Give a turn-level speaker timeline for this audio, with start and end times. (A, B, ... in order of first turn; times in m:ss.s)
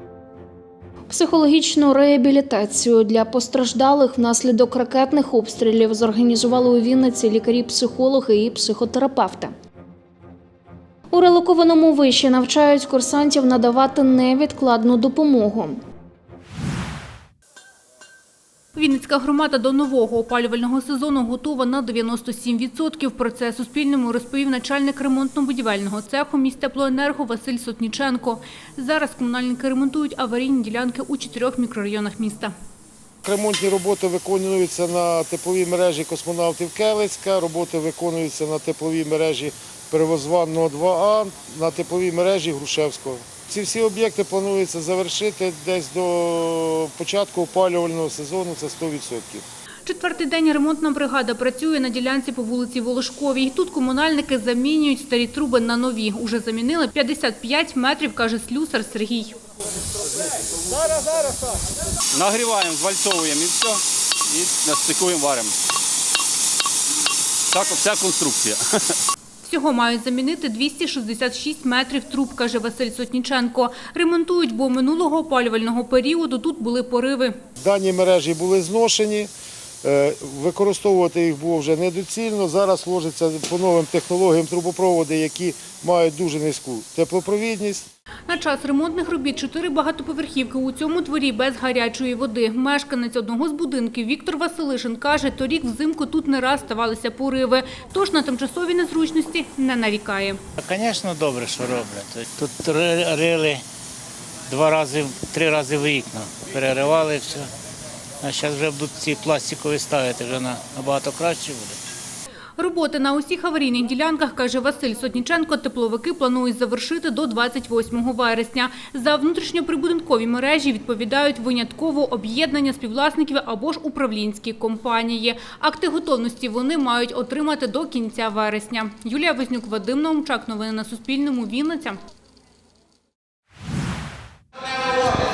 0:01.1-0:09.5 A
0:11.1-0:15.8 A
0:18.8-0:32.5 B
0:33.2-0:49.4 C
0:49.9-0:59.4 B
1:02.2-1:03.8 D
1:04.3-1:05.5 D
1:07.5-1:08.6 D
1:09.4-1:17.4 B
1:17.6-1:19.3 C
1:19.8-1:27.9 C
1:28.3-1:40.4 B
1:40.6-1:43.6 E
1:44.5-1:47.4 E
1:48.2-1:51.7 E
1:52.6-2:12.0 B